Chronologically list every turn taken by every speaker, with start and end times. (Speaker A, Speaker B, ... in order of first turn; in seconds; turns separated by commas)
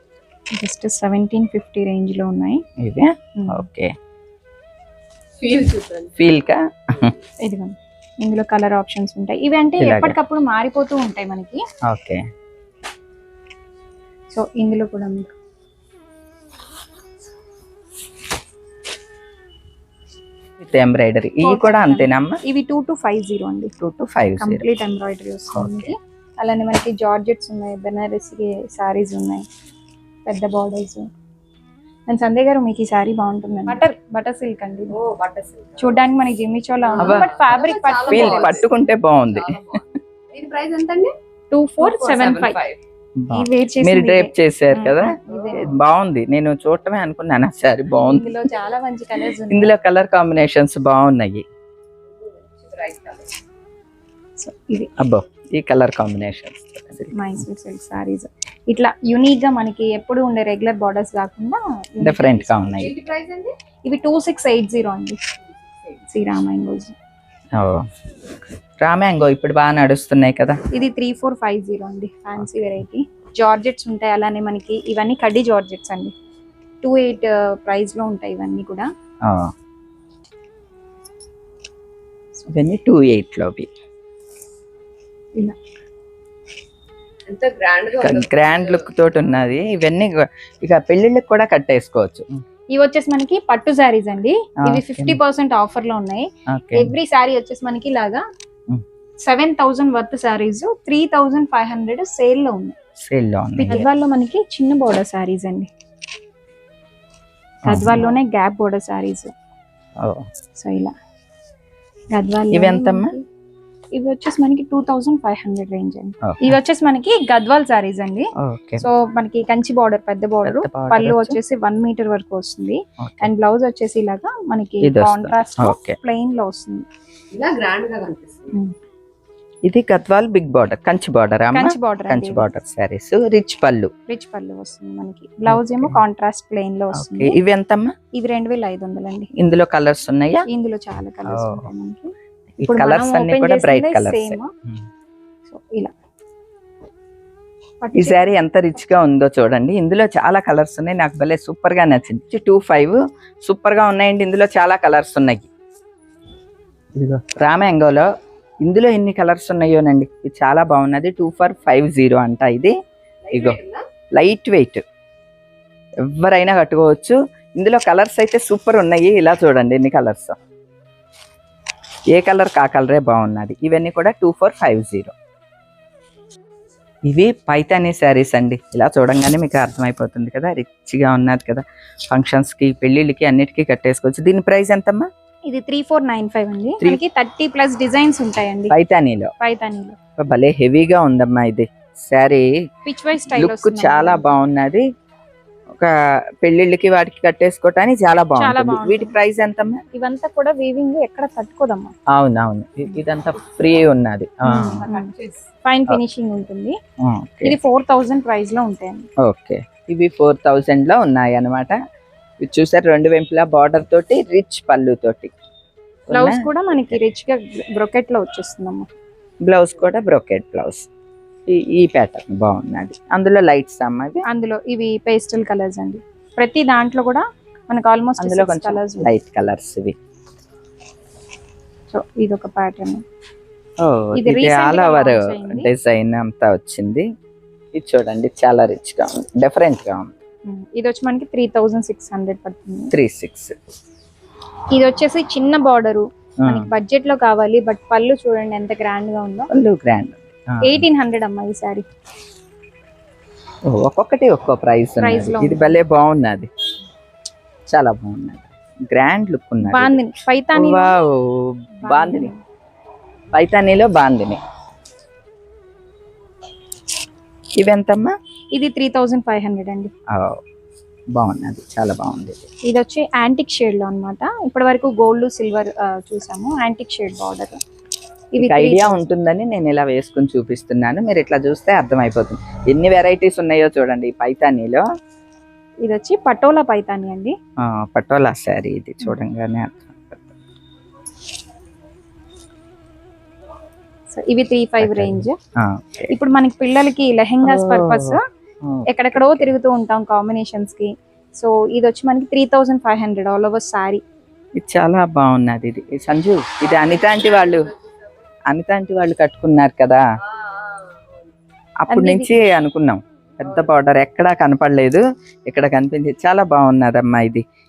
Speaker A: 0.5-2.6, Speaker B: 2.8-3.9, Speaker A: 3.4-3.7, Speaker C: 5.4-6.3, Speaker B: 6.2-7.2, Speaker A: 7.4-11.6, Speaker B: 9.8-10.2, Speaker B: 11.9-12.2, Speaker A: 14.3-15.3, Speaker B: 20.6-22.4, Speaker A: 21.4-23.7, Speaker B: 23.8-24.6, Speaker A: 24.4-29.4, Speaker B: 25.5-25.9, Speaker A: 30.3-31.1, Speaker A: 32.1-35.0, Speaker C: 34.9-36.1, Speaker A: 35.8-38.6, Speaker C: 36.9-38.7, Speaker B: 37.0-37.3, Speaker B: 38.1-39.6, Speaker C: 39.3-41.1, Speaker A: 41.5-42.6, Speaker C: 41.8-42.8, Speaker B: 43.2-48.4, Speaker A: 43.3-45.8, Speaker C: 45.3-45.7, Speaker A: 47.9-49.8, Speaker B: 49.5-51.5, Speaker C: 52.5-53.3, Speaker A: 54.4-54.9, Speaker B: 55.0-57.4, Speaker A: 57.1-62.6, Speaker B: 62.0-62.9, Speaker C: 62.7-63.5, Speaker A: 63.8-65.2, Speaker C: 65.5-66.0, Speaker A: 66.1-66.9, Speaker B: 67.6-67.8, Speaker B: 68.8-70.6, Speaker A: 70.7-76.1, Speaker A: 76.8-78.9, Speaker B: 79.3-79.5, Speaker B: 82.5-83.7, Speaker C: 87.3-88.9, Speaker B: 88.0-92.4, Speaker A: 92.7-98.2, Speaker B: 94.6-95.2, Speaker B: 96.5-96.9, Speaker A: 99.2-102.8, Speaker B: 103.0-103.9, Speaker A: 103.6-105.7, Speaker B: 107.6-108.1, Speaker A: 107.7-109.3, Speaker B: 110.0-110.3, Speaker A: 110.6-110.9, Speaker A: 112.1-113.2, Speaker B: 112.5-113.1, Speaker A: 113.9-126.9, Speaker B: 116.2-116.6, Speaker B: 118.4-118.9, Speaker B: 120.5-121.4, Speaker B: 123.0-123.3, Speaker B: 124.8-126.0, Speaker C: 127.3-128.6, Speaker B: 129.7-133.9, Speaker A: 131.5-132.5, Speaker A: 134.1-137.4, Speaker B: 135.5-136.0, Speaker B: 136.9-137.9, Speaker A: 138.1-139.3, Speaker B: 139.4-140.4, Speaker A: 140.5-144.5, Speaker B: 141.3-141.7, Speaker B: 142.6-144.8, Speaker A: 145.5-145.9, Speaker A: 147.8-148.3, Speaker B: 147.9-155.5, Speaker B: 156.9-158.1, Speaker B: 158.6-162.7, Speaker C: 163.2-163.8, Speaker B: 163.3-163.6, Speaker B: 164.2-164.8, Speaker B: 166.1-170.4, Speaker B: 172.1-175.1, Speaker B: 177.1-185.1, Speaker A: 185.4-188.7, Speaker B: 188.7-189.3, Speaker A: 189.4-190.0, Speaker B: 190.2-192.5, Speaker A: 192.9-194.4, Speaker B: 193.3-194.8, Speaker B: 195.8-199.8, Speaker A: 198.4-199.2, Speaker A: 199.9-201.9, Speaker B: 202.1-204.8, Speaker A: 204.4-205.1, Speaker C: 204.8-205.4, Speaker A: 205.6-206.8, Speaker B: 207.0-207.6, Speaker A: 207.4-209.1, Speaker B: 209.2-211.8, Speaker B: 212.4-215.3, Speaker B: 216.1-217.0, Speaker A: 216.1-218.9, Speaker B: 219.4-220.9, Speaker B: 221.5-224.2, Speaker A: 224.3-229.1, Speaker B: 228.2-229.9, Speaker A: 231.9-233.0, Speaker B: 233.8-237.1, Speaker A: 234.2-235.7, Speaker B: 237.8-240.1, Speaker A: 240.5-242.9, Speaker B: 242.9-243.5, Speaker A: 244.7-249.5, Speaker B: 246.4-246.7, Speaker B: 249.5-250.8, Speaker A: 250.6-251.9, Speaker B: 253.7-256.5, Speaker A: 255.0-255.8, Speaker B: 257.7-260.0, Speaker A: 259.6-260.9, Speaker B: 260.5-262.3, Speaker A: 261.8-262.4, Speaker B: 263.3-264.4, Speaker B: 267.6-268.1, Speaker A: 268.5-269.9, Speaker B: 270.1-270.4, Speaker B: 271.1-272.4, Speaker A: 272.7-277.6, Speaker A: 278.3-279.1, Speaker B: 278.4-284.8, Speaker A: 285.8-287.3, Speaker B: 287.6-290.3, Speaker A: 294.1-295.4, Speaker B: 294.8-296.1, Speaker A: 296.1-298.2, Speaker B: 297.4-299.5, Speaker A: 298.9-304.0, Speaker B: 304.6-307.7, Speaker C: 306.6-308.0, Speaker B: 308.5-310.0, Speaker C: 310.2-311.3, Speaker B: 311.8-317.4, Speaker A: 311.9-312.4